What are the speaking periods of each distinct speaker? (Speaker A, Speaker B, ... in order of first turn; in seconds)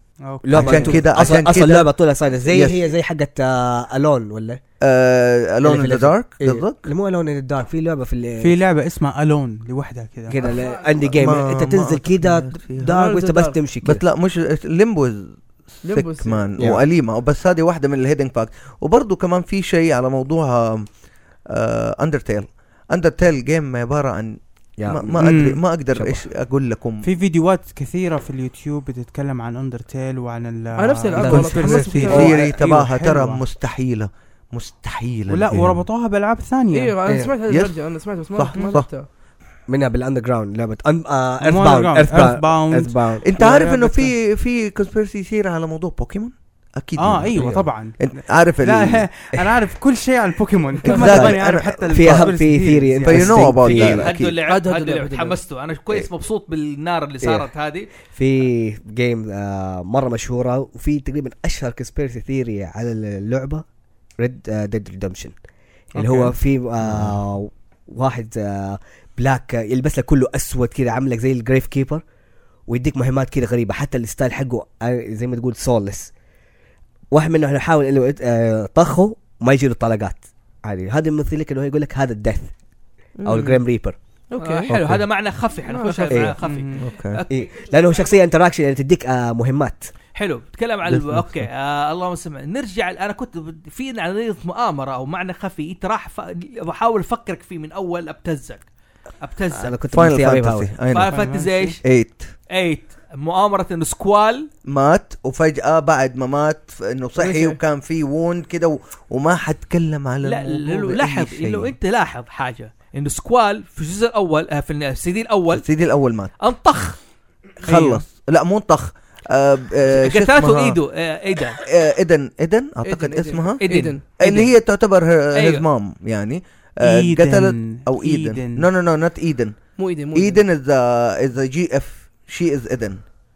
Speaker A: 0.2-1.1, 8.4-10.4, 25.2-25.6, 27.0-33.4, 35.3-36.9, 41.4-44.1, 47.0-53.5, 66.0-66.3, 86.4-86.8, 101.1-101.8, 117.7-118.0, 126.8-128.6
Speaker B: 0.4-4.6, 5.6-8.6, 10.3-14.0, 24.8-25.2, 25.9-26.2, 32.1-32.5, 37.1-37.3, 39.7-43.3, 47.3-47.6, 50.8-54.3, 58.1-63.6, 64.2-65.3, 65.9-72.0, 72.7-76.1, 77.1-82.5, 83.2-84.0, 86.1-86.4, 87.3-89.9, 99.5-100.7
Speaker C: 0.5-2.8, 4.8-6.9, 11.1-12.9, 13.8-20.9, 21.5-27.0, 31.2-35.8, 37.5-37.7, 38.3-38.9, 43.2-49.1, 50.8-52.3, 53.0-54.3, 66.8-67.2, 84.7-85.0, 86.8-87.2, 90.9-91.4, 99.9-101.2, 101.8-102.3, 104.7-111.7, 115.5-116.3, 117.6-120.8, 121.6-129.6, 130.1-133.0
Speaker D: 10.3-11.1, 12.8-13.6, 15.8-16.5, 30.7-32.4, 36.7-39.1, 54.5-55.4, 83.2-83.6, 84.3-84.7, 85.7-86.3, 107.2-107.6, 122.8-124.0, 129.8-130.4
Speaker E: 53.6-57.9, 84.4-87.5, 90.1-98.6, 99.2-99.8, 100.9-101.8, 102.5-104.5, 110.2-115.7, 116.4-117.0, 119.9-121.6, 123.6-124.5, 125.3-125.6